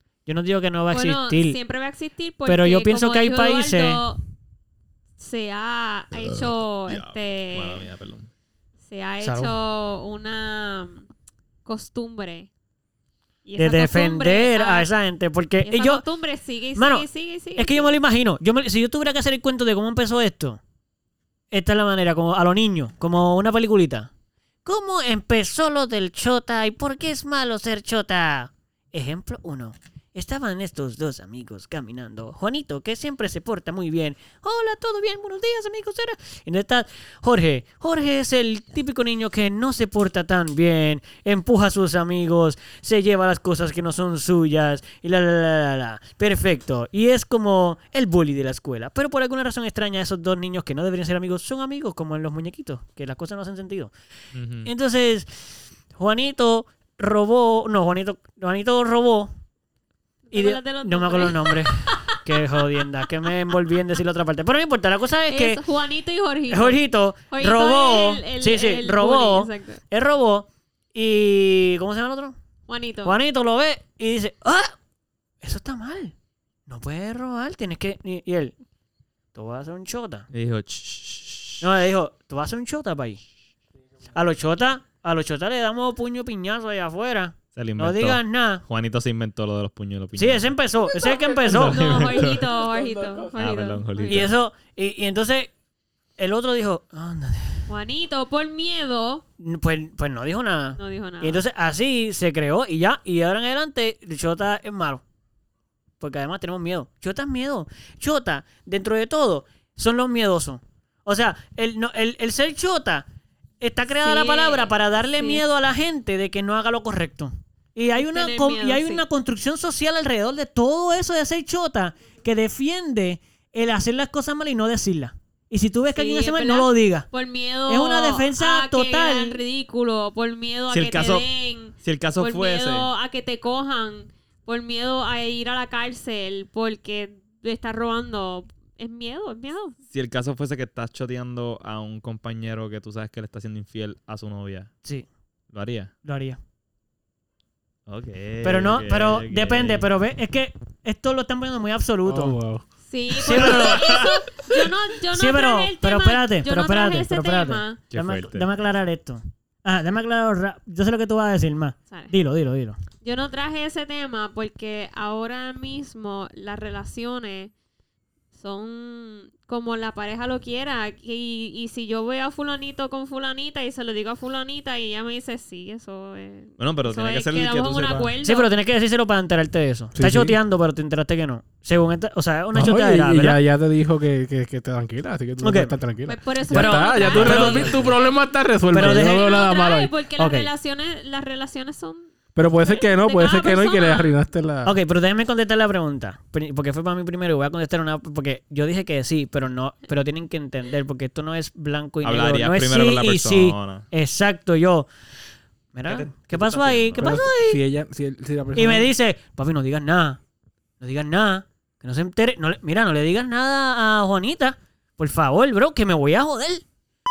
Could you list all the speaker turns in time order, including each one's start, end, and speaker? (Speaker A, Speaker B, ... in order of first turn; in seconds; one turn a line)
Speaker A: 0.2-1.6
Speaker B: 0.9-4.2
Speaker A: 2.5-4.0
Speaker B: 5.2-7.9
Speaker C: 6.1-8.3
Speaker B: 8.8-11.1
Speaker A: 9.2-9.6
Speaker B: 11.6-12.5
Speaker B: 13.4-14.9
Speaker A: 13.6-16.0
Speaker B: 15.6-17.9
Speaker A: 16.7-20.6
Speaker A: 21.5-24.1
Speaker A: 24.6-53.9
Speaker C: 54.3-54.7
Speaker A: 54.6-59.3
Speaker B: 60.3-62.6
Speaker A: 60.3-65.6
Speaker B: 65.3-69.8
Speaker A: 66.5-72.3
Speaker B: 72.7-73.2
Speaker A: 73.0-74.7
Speaker A: 75.4-76.1
Speaker A: 76.7-78.5
Speaker A: 79.3-80.3
Speaker C: 80.3-81.7
Speaker A: 81.6-83.2
Speaker A: 84.1-88.6
Speaker C: 87.5-90.5
Speaker A: 90.2-92.2
Speaker B: 91.0-94.3
Speaker C: 91.4-92.5
Speaker C: 93.3-94.3
Speaker A: 94.0-95.5
Speaker A: 96.2-97.7
Speaker B: 97.7-99.2
Speaker A: 99.4-105.0
Speaker B: 100.8-101.4
Speaker A: 106.0-113.0
Speaker A: 113.6-127.1
Speaker B: 114.0-115.4
Speaker B: 118.0-119.0
Speaker B: 125.9-139.8
Speaker A: 127.7-129.4
Speaker C: 130.7-132.9
Speaker C: 139.9-144.7
Speaker C: 145.5-145.9
Speaker A: 146.0-146.4
Speaker C: 147.9-149.9
Speaker A: 148.4-152.3
Speaker D: 152.0-152.6
Speaker B: 152.8-157.8
Speaker A: 153.2-154.4
Speaker C: 153.3-154.2
Speaker A: 155.1-162.8
Speaker C: 157.9-158.5
Speaker B: 163.0-167.5
Speaker B: 168.3-178.5
Speaker C: 176.6-178.1
Speaker A: 178.2-183.4
Speaker D: 179.9-180.4
Speaker D: 182.5-190.3
Speaker A: 185.4-185.8
Speaker B: 186.1-188.1
Speaker A: 186.5-187.9
Speaker C: 187.2-187.8
Speaker A: 188.7-189.2
Speaker B: 188.7-192.1
Speaker A: 190.2-190.5
Speaker D: 192.3-194.8
Speaker B: 192.6-194.1
Speaker A: 194.6-204.9
Speaker C: 202.0-203.9
Speaker A: 205.7-207.6
Speaker C: 205.8-207.2
Speaker D: 207.0-208.9
Speaker A: 208.5-210.2
Speaker A: 210.8-216.6